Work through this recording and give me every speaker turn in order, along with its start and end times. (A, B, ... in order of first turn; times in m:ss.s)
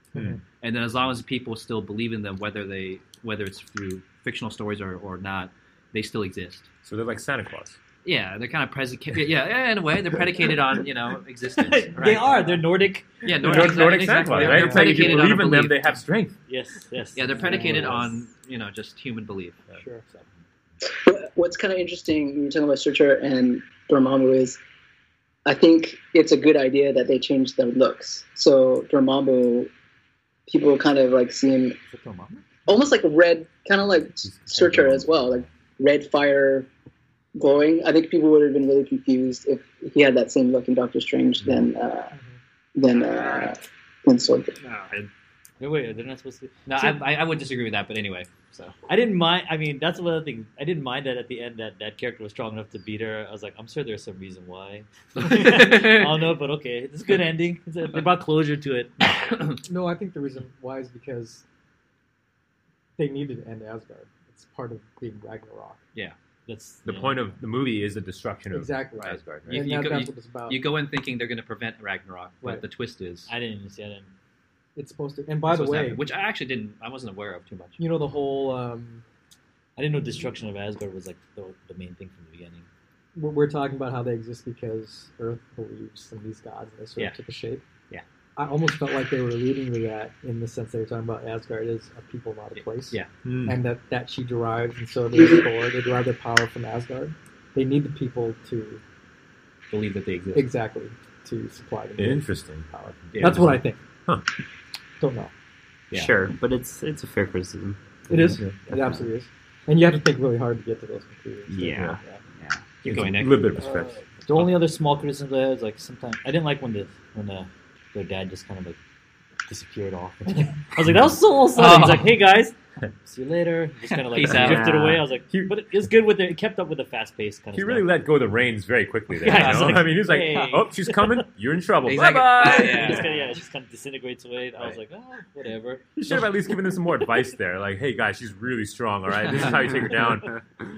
0:00.1-0:00.4 A
0:00.6-0:06.7 B
0:06.8-0:07.8 C
0:08.0-0:12.5 B
0:11.6-0:15.1 D
0:13.2-0:16.0 B
0:13.4-0:16.4 C
0:16.5-0:18.1 D
0:17.2-0:20.3 B
0:17.3-0:18.1 A
0:19.7-0:20.0 A
0:20.9-0:24.6 E
0:25.5-0:29.7 E
0:30.5-0:31.8 E
0:31.9-0:32.5 D
0:32.7-0:36.7 E
0:34.2-0:35.4 C
0:37.4-0:42.1 E
0:41.4-0:41.7 C
0:42.8-0:44.6 E
0:44.6-0:45.1 B
0:45.6-0:47.0 D
0:46.7-0:48.8 B
0:48.9-0:59.1 D
0:55.2-0:56.3 B
0:59.0-0:59.6 B
0:59.6-1:01.4 A
1:03.0-1:05.8 A
1:06.5-1:07.3 D
1:06.9-1:09.6 C
1:08.5-1:10.6 A
1:09.0-1:13.3 B
1:13.3-1:14.1 D
1:14.8-1:16.0 A
1:15.4-1:17.8 B
1:17.8-1:19.0 A
1:19.8-1:22.7 D
1:23.2-1:27.6 A
1:28.4-1:38.8 A
1:32.5-1:33.1 B
1:33.2-1:33.6 C
1:39.7-1:40.5 B
1:40.3-1:43.8 A
1:42.0-1:44.2 C
1:43.1-1:43.6 B
1:45.0-1:45.3 A
1:45.9-1:48.0 F
1:48.1-1:51.8 A
1:51.5-1:52.7 F
1:51.8-1:52.0 C
1:52.8-1:53.4 B
1:52.8-1:54.0 C
1:53.6-1:58.8 D
1:59.5-2:07.9 D
2:01.6-2:02.2 B
2:04.0-2:04.7 B
2:04.3-2:05.1 F
2:07.5-2:13.1 C
2:09.2-2:11.2 D
2:09.3-2:09.8 B
2:11.8-2:13.3 B
2:12.4-2:17.1 D
2:16.0-2:20.3 C
2:19.4-2:20.1 D